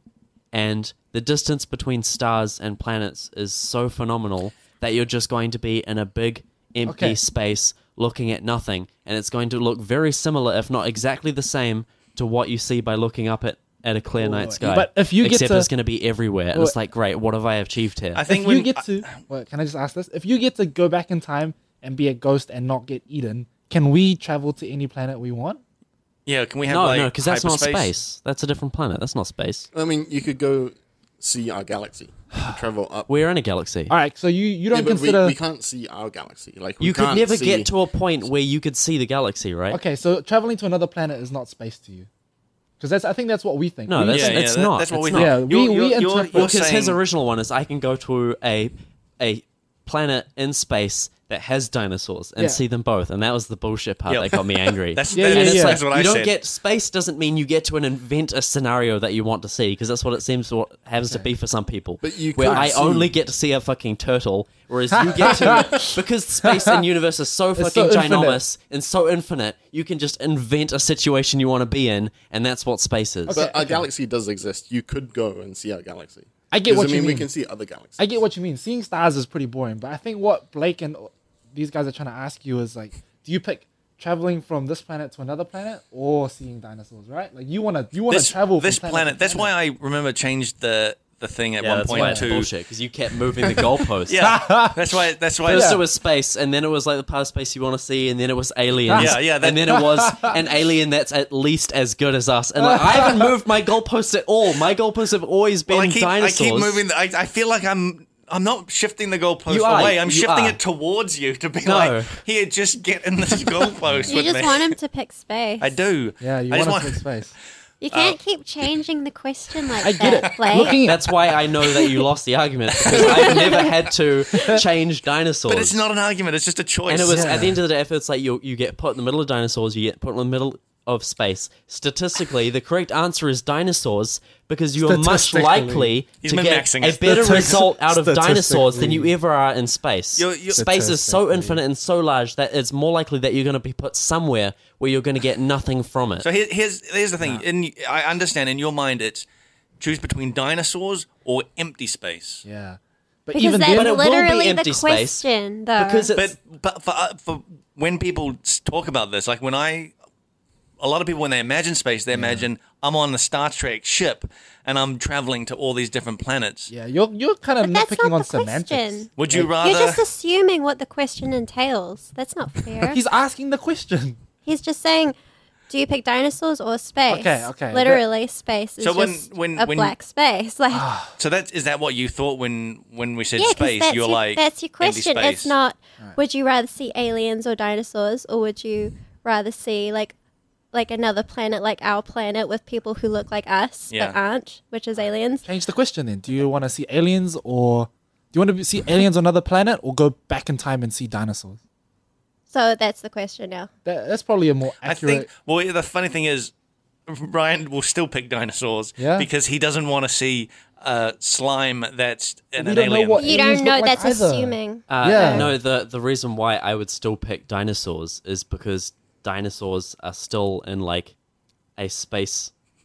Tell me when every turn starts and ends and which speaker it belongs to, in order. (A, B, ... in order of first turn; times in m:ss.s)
0:00.5-0:18.2 A
0:06.8-0:07.2 B
0:14.2-0:15.7 B
0:18.1-0:19.1 C
0:18.3-0:25.6 B
0:26.2-0:27.9 C
0:26.7-0:29.7 A
0:29.7-0:33.1 D
0:33.1-0:33.9 A
0:33.9-0:35.4 B
0:34.7-0:37.7 D
0:36.8-0:39.8 A
0:39.7-0:42.1 B
0:42.8-0:44.4 B
0:43.9-0:45.4 A
0:44.1-0:47.0 C
0:45.1-0:46.6 B
0:46.3-1:13.4 A
0:54.1-0:56.4 C
0:55.1-0:55.8 B
1:02.0-1:03.1 D
1:02.5-1:02.7 B
1:05.0-1:06.8 B
1:07.6-1:08.4 B
1:13.2-1:13.9 B
1:13.3-1:18.1 D
1:16.5-1:17.3 B
1:18.0-1:29.5 B
1:28.1-1:32.5 C
1:31.6-1:34.3 A
1:31.9-1:32.3 B
1:34.1-1:35.8 C
1:34.2-1:35.8 B
1:35.4-1:46.8 A
1:38.9-1:40.4 B
1:38.9-1:39.9 C
1:42.6-1:43.3 B
1:45.7-1:54.8 C
1:49.5-1:50.6 A
1:51.6-1:52.2 A
1:54.0-1:55.7 E
1:55.6-1:57.0 C
1:56.2-1:57.3 B
1:57.8-2:00.8 E
1:57.9-1:58.7 C
1:59.6-2:00.8 C
1:59.8-2:01.0 B
2:00.8-2:05.8 A
2:02.9-2:03.7 E
2:04.4-2:04.6 E
2:05.4-2:07.5 C
2:06.9-2:26.3 A
2:07.1-2:07.6 B
2:14.8-2:15.9 B
2:16.2-2:17.6 C
2:17.1-2:19.1 B
2:20.2-2:20.6 C
2:20.5-2:21.6 B
2:26.2-2:29.2 C
2:27.2-2:27.4 B
2:29.8-2:32.4 C
2:32.4-2:34.0 B
2:33.3-2:36.1 E
2:33.7-2:36.3 A
2:36.2-2:39.9 C
2:40.8-2:46.7 C
2:42.1-2:42.5 B
2:46.7-2:49.5 B
2:47.6-2:49.1 E
2:49.2-2:50.0 C
2:49.6-2:53.0 E
2:52.8-2:54.2 B
2:54.4-2:55.2 E
2:55.7-3:00.9 E
2:57.1-2:58.0 B
2:58.8-3:00.0 C
3:00.7-3:01.1 B
3:01.2-3:05.5 C
3:03.4-3:10.1 E
3:10.7-3:15.5 E
3:13.9-3:14.2 C
3:15.4-3:21.6 B
3:22.5-3:23.7 E
3:23.8-3:25.3 B
3:24.8-3:26.5 C
3:27.1-3:33.2 C
3:29.0-3:29.3 B
3:32.6-3:35.6 B
3:33.2-3:35.5 E
3:34.9-3:41.1 A
3:41.8-3:42.5 A